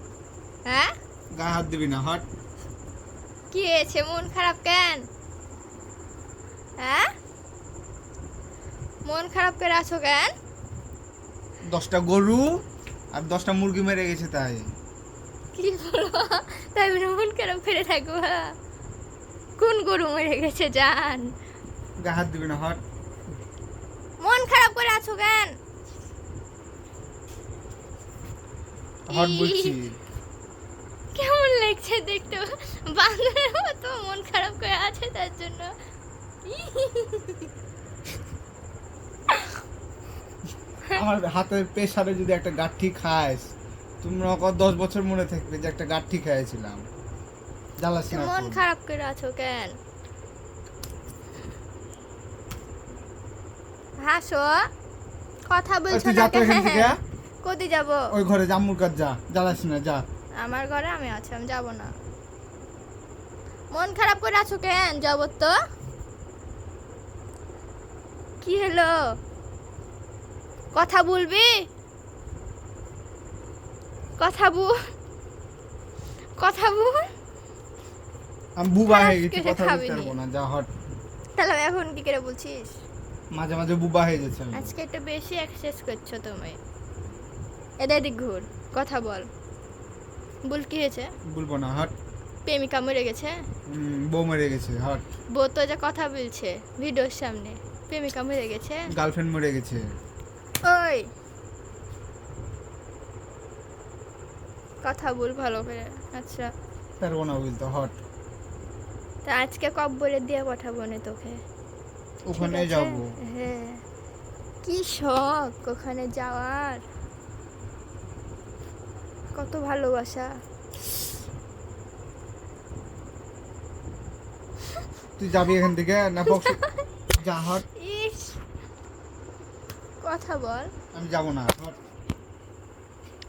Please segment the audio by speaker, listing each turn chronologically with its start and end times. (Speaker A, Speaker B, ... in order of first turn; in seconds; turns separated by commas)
Speaker A: 0.7-0.9, Speaker B: 1.4-2.2, Speaker A: 3.5-5.0, Speaker A: 6.8-7.1, Speaker A: 9.1-10.3, Speaker B: 11.7-12.5, Speaker B: 13.1-14.6, Speaker A: 15.6-18.5, Speaker A: 19.6-21.3, Speaker B: 22.0-22.8, Speaker A: 24.2-25.5, Speaker B: 29.1-29.9, Speaker A: 29.1-29.8, Speaker A: 31.1-35.7, Speaker A: 36.5-37.5, Speaker A: 39.3-39.6, Speaker B: 40.9-43.5, Speaker B: 44.0-46.8, Speaker B: 47.8-48.6, Speaker A: 48.1-49.7, Speaker A: 54.0-54.7, Speaker A: 55.5-58.1, Speaker B: 55.9-57.0, Speaker B: 58.1-60.0, Speaker A: 60.4-61.9, Speaker A: 63.7-65.5, Speaker A: 68.4-69.0, Speaker A: 70.8-71.5, Speaker A: 74.2-74.8, Speaker A: 76.4-77.1, Speaker B: 78.6-80.7, Speaker A: 78.9-80.1, Speaker A: 81.4-82.8, Speaker B: 83.3-84.7, Speaker A: 84.5-86.6, Speaker A: 87.8-89.3, Speaker A: 90.5-91.1, Speaker B: 91.3-91.9, Speaker A: 92.5-93.4, Speaker B: 93.7-95.1, Speaker A: 95.3-98.9, Speaker B: 98.9-99.8, Speaker A: 100.6-101.1, Speaker A: 104.8-106.5, Speaker B: 107.0-107.9, Speaker A: 109.2-111.4, Speaker B: 112.3-113.1, Speaker A: 112.4-113.8, Speaker A: 114.6-116.8, Speaker A: 119.3-120.3, Speaker B: 125.2-126.6, Speaker A: 126.3-126.8, Speaker B: 127.2-127.7, Speaker A: 127.8-128.4, Speaker A: 130.0-130.7, Speaker B: 130.9-131.8